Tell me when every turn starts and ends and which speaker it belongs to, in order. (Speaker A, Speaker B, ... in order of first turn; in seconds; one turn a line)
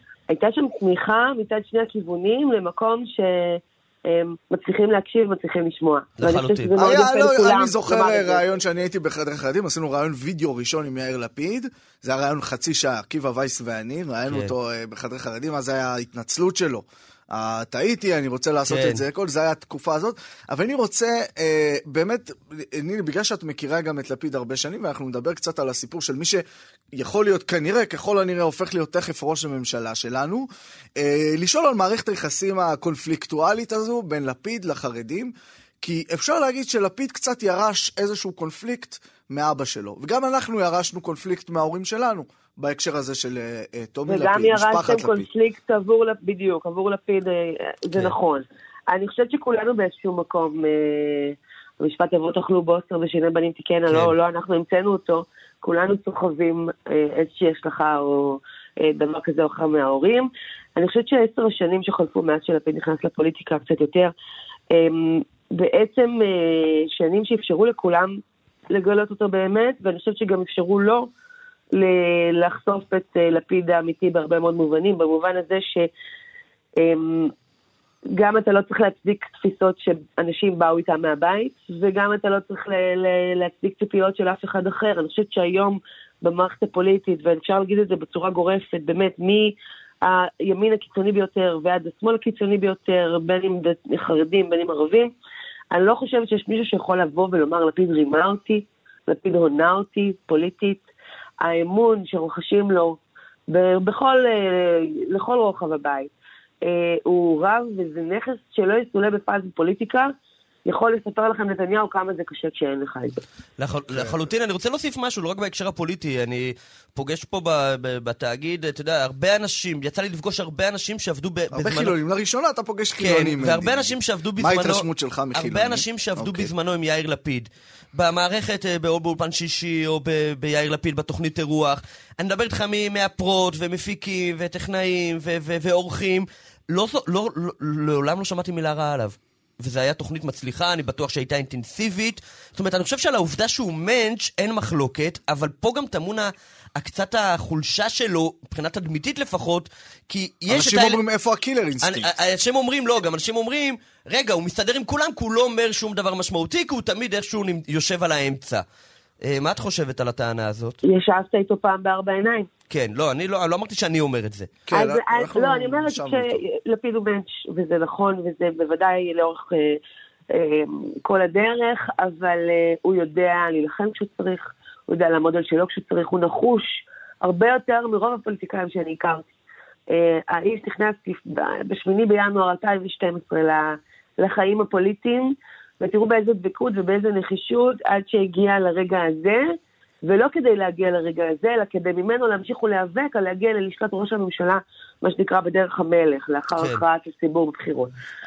Speaker A: 0.3-8.4
Speaker B: 6.2-6.7
Speaker C: 6.8-26.4
Speaker B: 18.7-19.0
Speaker C: 26.9-45.3
Speaker A: 44.1-64.1
Speaker A: 64.7-68.2
Speaker A: 68.7-71.1
Speaker A: 71.7-75.9
Speaker A: 76.8-77.3
Speaker A: 78.1-95.1
Speaker A: 95.7-100.9
Speaker A: 101.4-106.1
Speaker A: 106.6-110.1
Speaker A: 110.7-113.2
Speaker B: 113.6-122.0
Speaker C: 113.9-114.2
Speaker C: 121.5-126.5
Speaker B: 123.0-151.0
Speaker C: 150.5-152.1
Speaker B: 151.8-158.6
Speaker B: 159.2-160.8
Speaker A: 160.8-162.5
Speaker B: 162.7-164.5
Speaker C: 164.7-166.4
Speaker A: 164.7-169.8
Speaker A: 170.3-179.2
Speaker A: 179.9-183.7
Speaker A: 184.2-189.5
Speaker A: 190.1-197.9
Speaker B: 196.6-196.8